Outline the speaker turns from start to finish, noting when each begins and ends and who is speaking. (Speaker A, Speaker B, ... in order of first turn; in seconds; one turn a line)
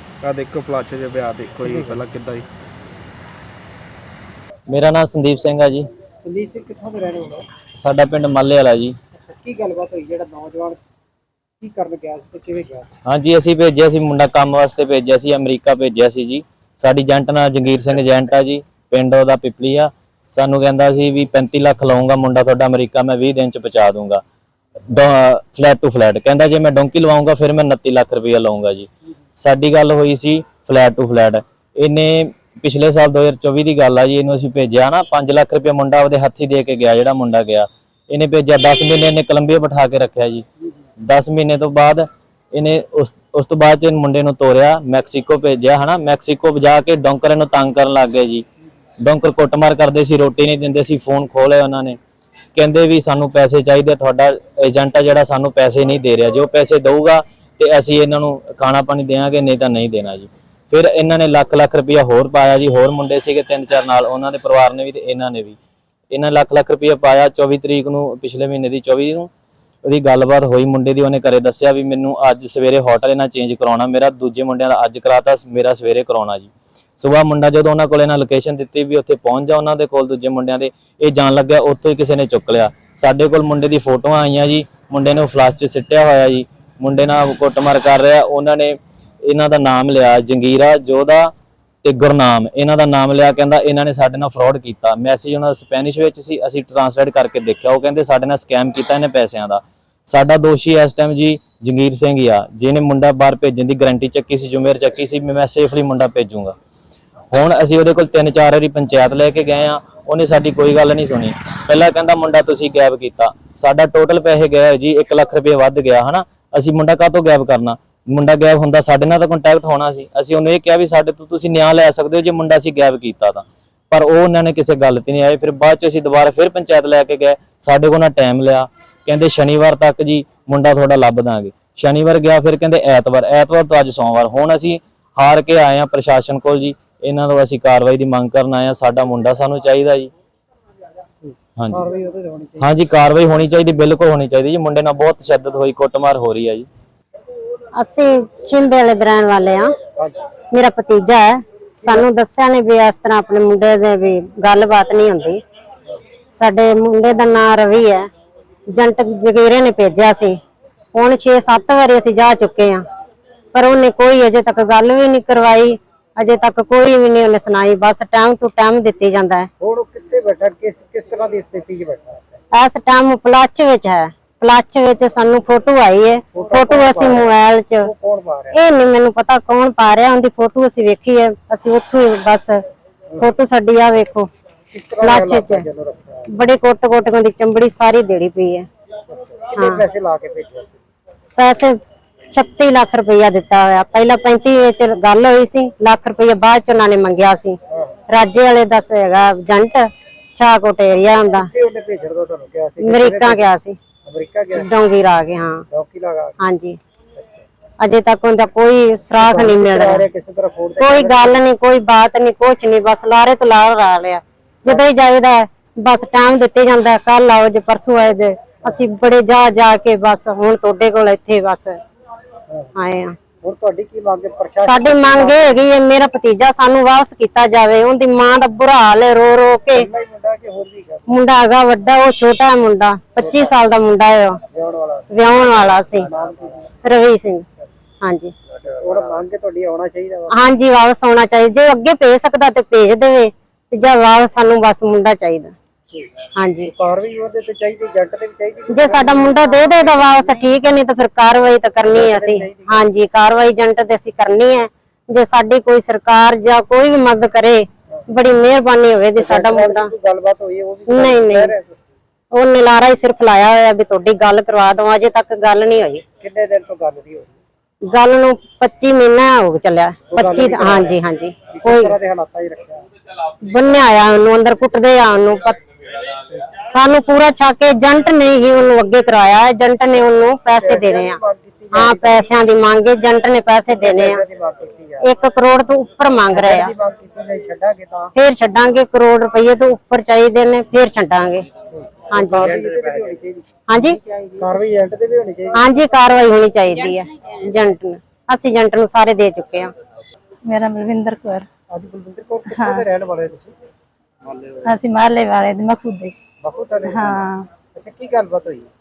Speaker A: 0.2-2.5
Speaker B: 1.6-2.0
Speaker C: 4.7-5.9
Speaker B: 6.2-7.5
Speaker C: 7.8-8.9
Speaker B: 9.2-10.8
Speaker B: 11.6-12.9
Speaker C: 13.1-24.2
Speaker C: 24.9-40.5
Speaker C: 41.0-48.5
Speaker C: 49.0-52.0
Speaker C: 52.5-65.6
Speaker C: 66.1-69.3
Speaker C: 69.8-91.3
Speaker C: 91.8-106.5
Speaker C: 107.3-140.1
Speaker B: 141.2-142.8
Speaker C: 141.6-141.8
Speaker C: 142.6-146.7
Speaker D: 147.8-149.7
Speaker B: 150.0-150.3
Speaker D: 150.5-155.4
Speaker D: 156.3-158.1
Speaker D: 158.7-160.4
Speaker D: 160.9-162.8
Speaker D: 163.5-169.5
Speaker B: 169.6-172.4
Speaker D: 172.5-177.9
Speaker B: 176.3-178.6
Speaker D: 178.5-182.6
Speaker D: 183.2-184.3
Speaker B: 184.7-186.3
Speaker D: 185.0-185.7
Speaker D: 186.3-188.7
Speaker B: 189.1-190.8
Speaker D: 189.6-189.8
Speaker D: 191.4-191.8
Speaker D: 192.3-197.6
Speaker D: 198.1-201.5
Speaker B: 201.2-203.5
Speaker D: 202.8-203.8
Speaker B: 204.1-204.8
Speaker D: 204.6-205.6
Speaker B: 205.7-206.4
Speaker D: 206.4-206.8
Speaker B: 207.2-207.4
Speaker D: 207.8-210.1
Speaker B: 209.2-211.5
Speaker D: 210.8-221.8
Speaker D: 222.8-223.2
Speaker B: 223.4-225.6
Speaker D: 224.6-229.9
Speaker B: 229.7-231.2
Speaker D: 231.1-234.4
Speaker B: 233.2-233.5
Speaker B: 234.5-236.7
Speaker D: 235.1-236.1
Speaker D: 236.8-237.5
Speaker D: 238.0-238.3
Speaker B: 238.7-240.4
Speaker D: 240.3-245.5
Speaker D: 246.3-246.7
Speaker B: 246.7-250.6
Speaker D: 248.7-259.9
Speaker B: 251.8-252.9
Speaker B: 259.2-261.7
Speaker D: 260.9-261.5
Speaker D: 262.3-266.0
Speaker B: 266.2-267.4
Speaker D: 267.9-271.9
Speaker B: 270.1-271.0
Speaker B: 271.5-272.9
Speaker D: 273.4-275.6
Speaker D: 276.7-281.2
Speaker B: 280.6-282.3
Speaker D: 281.7-284.2
Speaker B: 283.7-285.1
Speaker D: 285.0-286.7
Speaker B: 286.3-288.1
Speaker D: 288.1-291.5
Speaker B: 291.7-295.6
Speaker D: 292.1-292.5
Speaker D: 293.7-294.0
Speaker D: 295.6-299.7
Speaker E: 300.5-301.5
Speaker B: 301.7-303.5
Speaker E: 302.5-302.9
Speaker E: 304.6-306.1
Speaker B: 306.4-308.7
Speaker E: 306.9-307.5